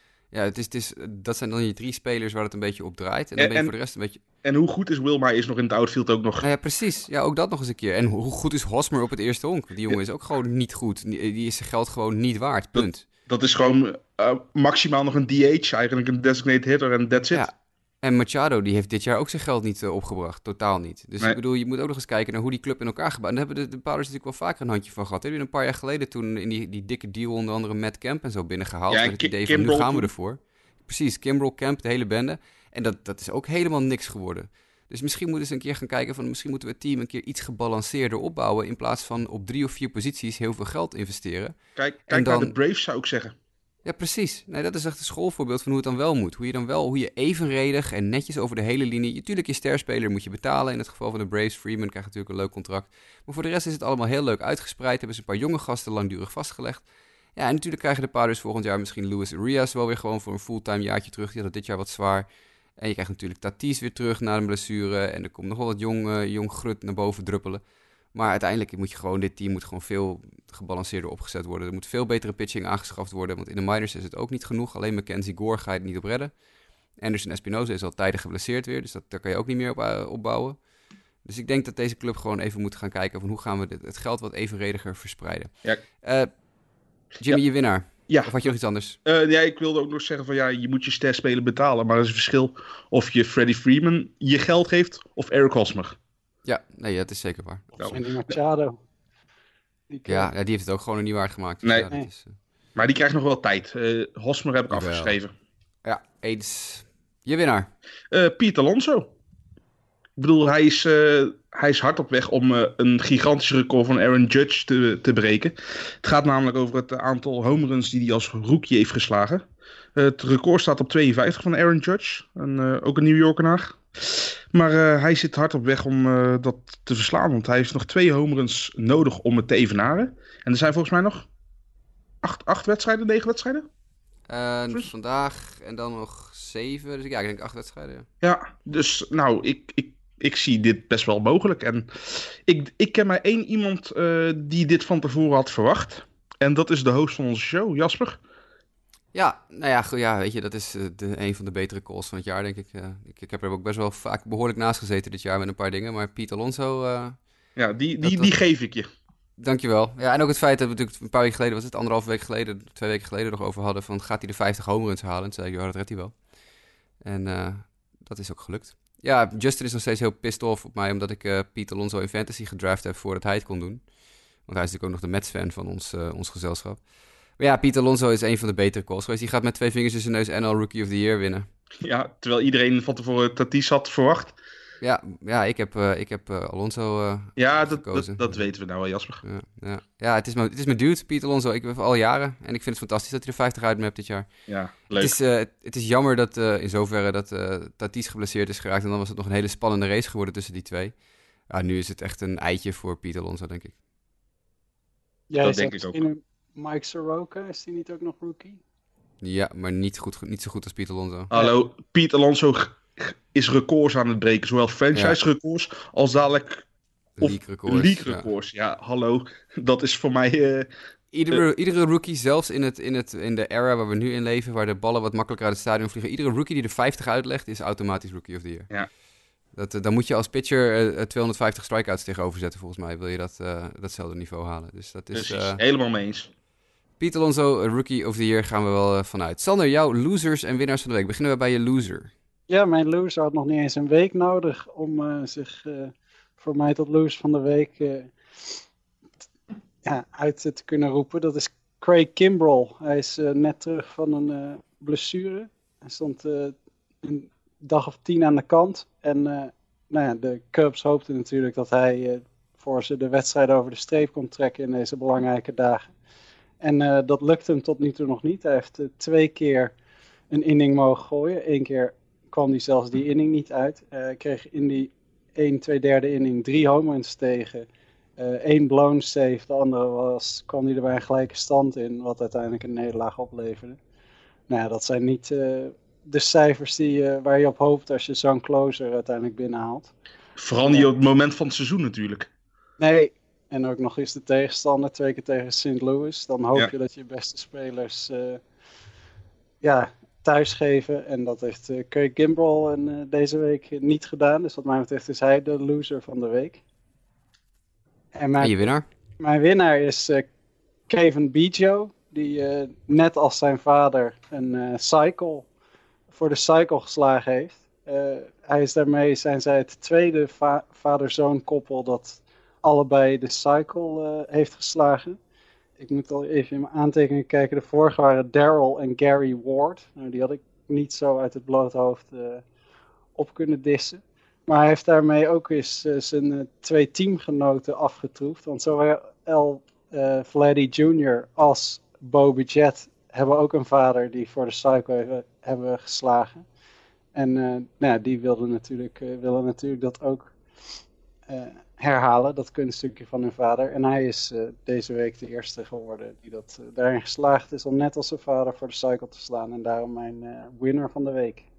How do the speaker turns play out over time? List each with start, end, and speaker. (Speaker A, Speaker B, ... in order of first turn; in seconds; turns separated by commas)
Speaker A: 0.3-4.2, Speaker B: 3.4-3.7, Speaker B: 4.4-6.5, Speaker A: 6.4-13.1, Speaker B: 12.8-17.5, Speaker A: 17.3-41.6, Speaker B: 28.9-30.1, Speaker B: 41.8-43.4, Speaker A: 42.1-42.5, Speaker A: 43.9-62.3, Speaker A: 62.8-67.6, Speaker A: 68.1-76.3, Speaker A: 77.0-80.6, Speaker A: 81.2-85.5, Speaker A: 86.0-86.3, Speaker A: 87.2-89.0, Speaker B: 88.1-88.4, Speaker B: 89.0-96.0, Speaker A: 96.5-97.8, Speaker C: 97.8-98.8, Speaker C: 99.9-100.3, Speaker A: 100.1-102.3, Speaker B: 101.6-101.9, Speaker B: 102.8-105.3, Speaker A: 104.7-105.2, Speaker A: 105.8-107.7, Speaker B: 108.1-109.1, Speaker B: 110.2-119.4, Speaker B: 120.0-131.3, Speaker B: 132.2-133.7, Speaker A: 134.3-138.1, Speaker B: 138.2-148.2, Speaker A: 149.1-157.2, Speaker B: 157.6-158.9, Speaker A: 158.0-158.3, Speaker A: 159.4-166.2, Speaker A: 167.0-173.8, Speaker A: 174.4-176.8, Speaker A: 177.4-181.5, Speaker B: 181.8-184.3, Speaker A: 184.8-188.4, Speaker B: 187.4-189.2, Speaker A: 189.2-194.3, Speaker B: 194.5-195.2, Speaker A: 195.0-200.9, Speaker A: 201.5-203.8, Speaker C: 205.3-208.6, Speaker B: 205.4-206.0, Speaker A: 209.2-211.3, Speaker B: 211.3-216.7, Speaker A: 217.2-218.3, Speaker B: 217.2-220.7, Speaker A: 221.1-228.7, Speaker A: 229.5-235.6, Speaker B: 235.1-236.3, Speaker A: 237.0-242.1, Speaker C: 242.5-248.6, Speaker C: 249.8-265.9, Speaker C: 266.6-269.7, Speaker C: 270.3-277.7, Speaker C: 278.2-283.8, Speaker C: 284.5-289.9, Speaker B: 290.4-292.3, Speaker C: 292.8-298.4, Speaker C: 299.6-306.6, Speaker C: 308.1-308.6, Speaker A: 308.4-308.9, Speaker C: 309.2-310.3, Speaker C: 310.9-315.5, Speaker C: 316.1-325.2, Speaker C: 325.8-332.4, Speaker C: 333.2-346.4, Speaker C: 347.1-350.3, Speaker C: 351.3-361.5